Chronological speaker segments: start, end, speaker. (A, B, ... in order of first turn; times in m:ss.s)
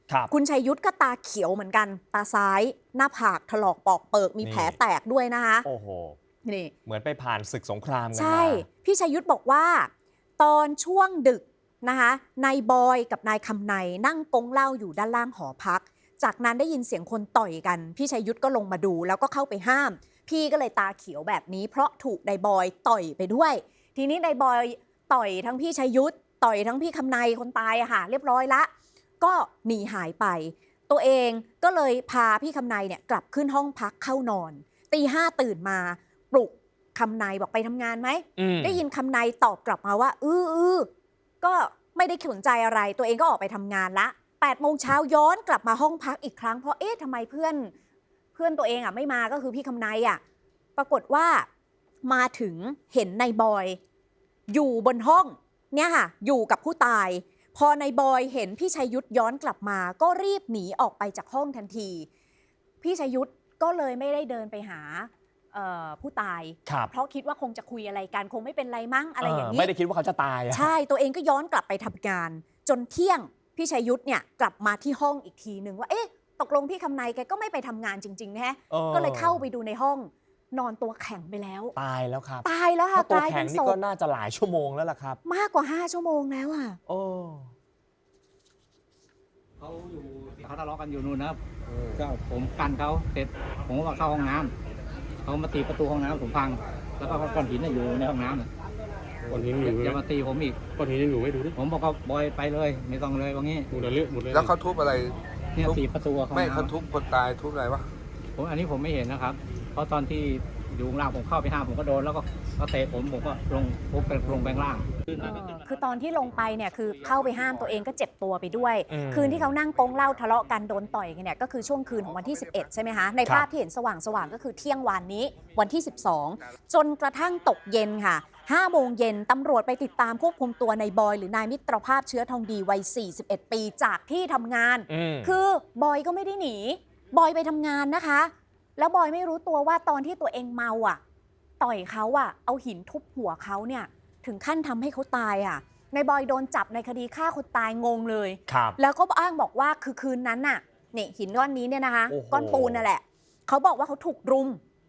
0:00.3-0:05.6 A
0:04.4-0:04.8 B
0:05.6-0:06.2 B
0:06.4-0:06.7 A
0:06.8-0:08.6 B
0:08.1-0:28.7 A
0:29.2-0:40.9 A
0:38.4-0:38.8 B
0:41.4-0:47.7 A
0:48.3-0:50.2 A
0:50.8-0:51.5 A
0:52.0-0:53.8 A
0:54.5-1:02.1 A
1:02.8-1:09.7 A
1:09.2-1:10.7 B
1:10.5-1:21.7 A
1:18.7-1:19.4 B
1:21.8-1:25.2 B
1:22.4-1:23.8 A
1:25.2-1:26.8 A
1:26.9-1:27.5 B
1:29.9-1:31.4 C
1:31.9-1:34.5 C
1:35.2-1:38.5 C
1:39.3-1:40.0 D
1:39.5-1:40.6 C
1:40.8-1:41.6 D
1:41.5-1:43.7 C
1:43.7-1:44.5 D
1:44.3-1:47.9 E
1:45.6-1:46.7 C
1:48.4-1:54.8 C
1:55.2-2:21.0 A
1:58.9-1:59.6 B
2:14.9-2:15.3 B
2:21.6-2:34.6 A
2:28.5-2:28.8 B
2:32.1-2:32.8 B